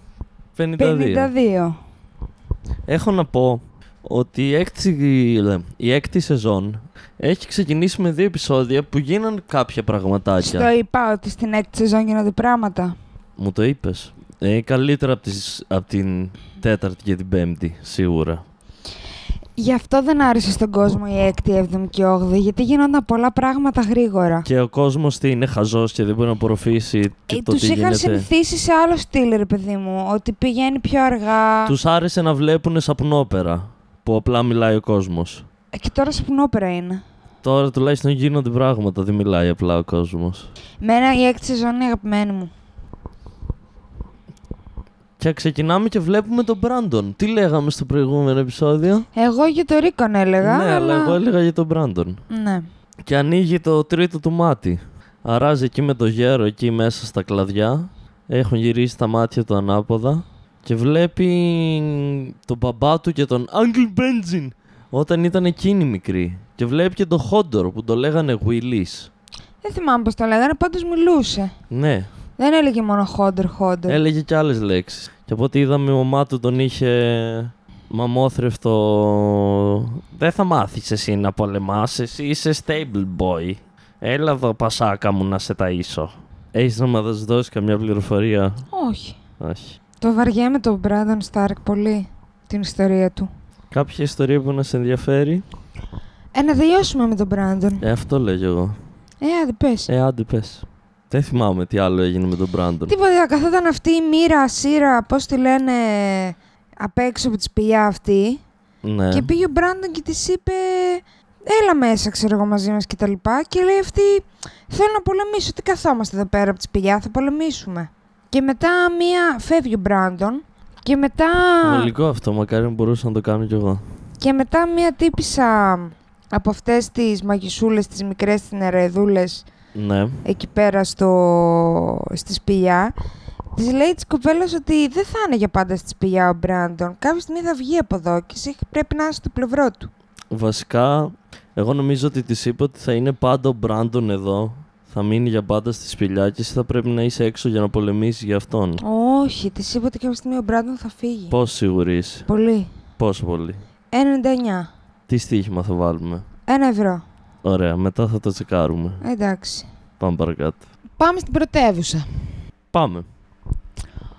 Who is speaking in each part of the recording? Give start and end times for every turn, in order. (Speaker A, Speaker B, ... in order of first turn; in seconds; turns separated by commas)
Speaker A: 0.6-1.3, Speaker B: 0.8-1.8, Speaker A: 2.9-10.7, Speaker B: 10.4-12.9, Speaker A: 13.4-18.4, Speaker B: 19.6-24.5, Speaker A: 24.4-28.3, Speaker B: 27.3-31.7, Speaker A: 31.7-35.5, Speaker B: 35.7-37.0, Speaker A: 37.4-40.5, Speaker B: 40.8-42.5, Speaker A: 45.2-49.1, Speaker B: 49.1-51.2, Speaker A: 50.4-52.2, Speaker B: 52.3-52.7, Speaker A: 53.1-69.1, Speaker B: 69.6-71.5, Speaker A: 71.7-72.1, Speaker B: 72.4-74.0, Speaker A: 73.9-88.6, Speaker B: 88.7-89.2, Speaker A: 89.4-89.8, Speaker B: 90.0-93.3, Speaker A: 93.7-95.4, Speaker B: 96.3-97.8, Speaker A: 97.8-98.8, Speaker B: 99.2-99.9, Speaker A: 99.9-103.0, Speaker B: 102.9-108.4, Speaker A: 108.8-109.3, Speaker B: 109.1-121.9, Speaker A: 121.6-123.8, Speaker B: 124.2-129.5, Speaker A: 129.8-130.2, Speaker B: 130.2-132.9, Speaker B: 133.6-139.9, Speaker A: 140.3-148.8, Speaker B: 148.8-151.3, Speaker A: 151.3-152.3, Speaker B: 152.3-152.7, Speaker A: 153.0-153.6, Speaker B: 153.9-154.7, Speaker A: 155.1-156.2, Speaker B: 156.5-157.0, Speaker A: 157.4-159.0, Speaker B: 159.0-159.7, Speaker A: 160.0-160.6, Speaker B: 161.0-162.1, Speaker A: 162.7-163.1